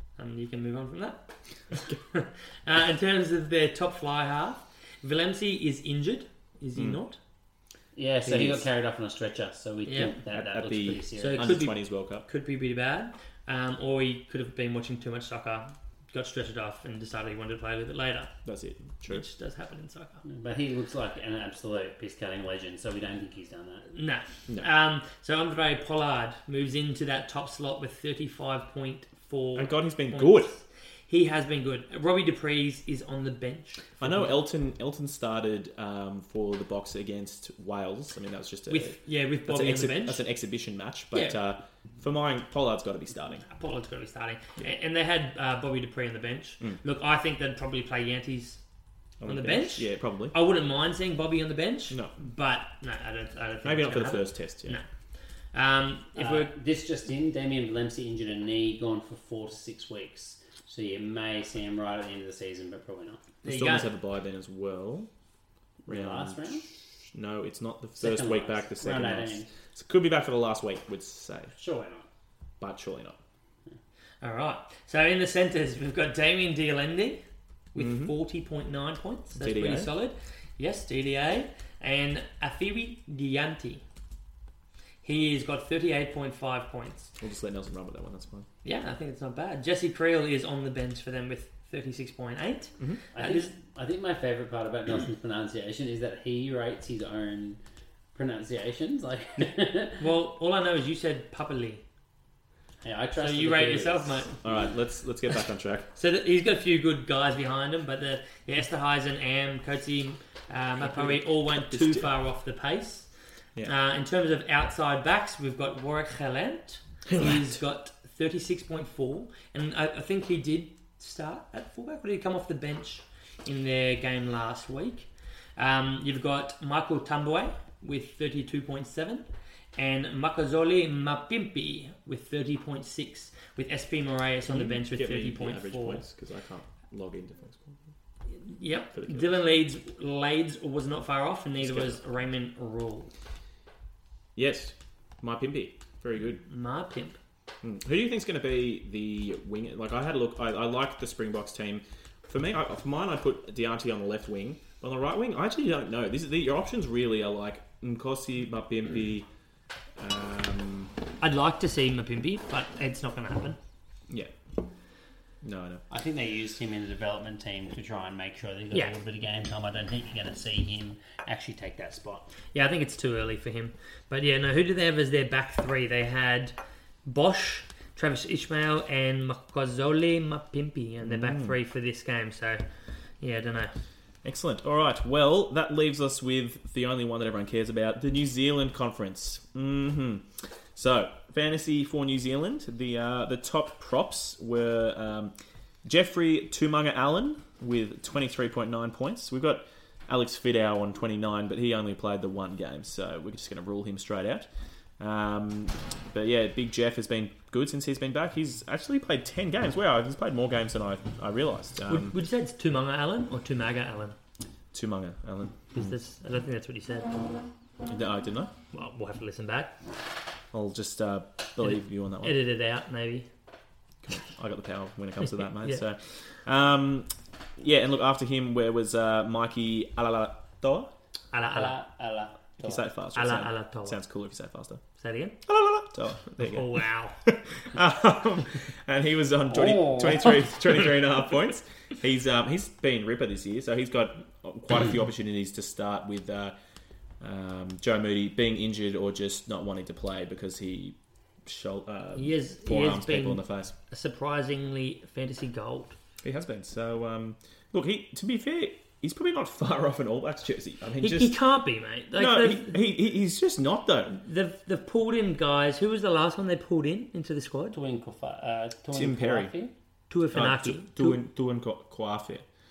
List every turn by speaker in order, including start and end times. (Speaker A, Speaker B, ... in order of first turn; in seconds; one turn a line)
Speaker A: 0.2-7.2
Speaker B: 8.0-11.6
Speaker C: 8.3-8.6
Speaker A: 9.9-10.1
Speaker C: 10.3-12.3
Speaker A: 11.2-18.3
Speaker C: 18.4-19.2
Speaker A: 19.1-20.2
Speaker B: 20.3-23.9
Speaker A: 23.9-34.3
Speaker C: 29.6-30.5
Speaker C: 34.0-43.5
Speaker A: 38.7-40.2
Speaker A: 43.5-48.6
Speaker C: 49.2-50.4
Speaker A: 49.3-54.9
Speaker C: 51.9-52.2
Speaker C: 53.6-54.8
Speaker A: 55.5-56.5
Speaker B: 56.2-63.3
Speaker A: 63.4-63.9
Speaker C: 63.5-65.1
Speaker B: 65.8-66.7
Speaker C: 65.9-66.6
Speaker C: 67.1-71.5
Speaker B: 68.0-69.5
Speaker B: 71.6-72.1
Speaker C: 72.6-73.2
Speaker A: 74.2-77.2
Speaker A: 77.7-83.8
Speaker C: 77.8-78.1
Speaker C: 79.4-79.9
Speaker A: 85.0-87.1
Speaker C: 87.2-88.5
Speaker A: 88.6-93.5
Speaker B: 93.2-97.6
Speaker B: 98.2-100.0
Speaker A: 100.0-101.8
Speaker B: 102.8-104.3
Speaker A: 103.2-104.3
Speaker C: 104.4-105.9
Speaker A: 106.0-113.1
Speaker C: 110.8-112.1
Speaker A: 113.6-129.2
Speaker C: 117.1-117.5
Speaker A: 129.8-136.0
Speaker C: 134.4-137.8
Speaker A: 138.4-143.1
Speaker C: 138.9-139.3
Speaker C: 141.6-142.0
Speaker C: 144.4-146.4
Speaker A: 146.4-147.2
Speaker C: 147.6-159.3
Speaker C: 160.0-160.9
Speaker A: 161.2-163.6
Speaker C: 165.4-165.8
Speaker B: 165.9-172.3
Speaker A: 172.5-182.6
Speaker C: 181.0-181.6
Speaker A: 183.2-183.7
Speaker C: 184.2-195.3
Speaker C: 195.8-204.5
Speaker C: 205.0-212.2
Speaker A: 211.9-214.2
Speaker C: 214.7-215.8
Speaker A: 215.7-217.2
Speaker C: 217.9-218.5
Speaker A: 218.7-219.7
Speaker C: 220.5-222.4
Speaker A: 221.6-223.3
Speaker C: 224.0-230.9
Speaker A: 231.3-231.7
Speaker B: 231.5-232.8
Speaker C: 232.6-234.8
Speaker A: 233.2-234.0
Speaker A: 235.0-235.4
Speaker C: 235.4-246.6
Speaker A: 236.4-237.2
Speaker B: 239.5-240.5
Speaker C: 247.2-253.7
Speaker A: 252.2-255.9
Speaker C: 256.2-261.4
Speaker A: 261.0-262.8
Speaker C: 262.1-264.2
Speaker A: 264.2-267.8
Speaker B: 267.7-269.7
Speaker C: 268.9-269.5
Speaker A: 270.1-271.2
Speaker C: 270.3-272.4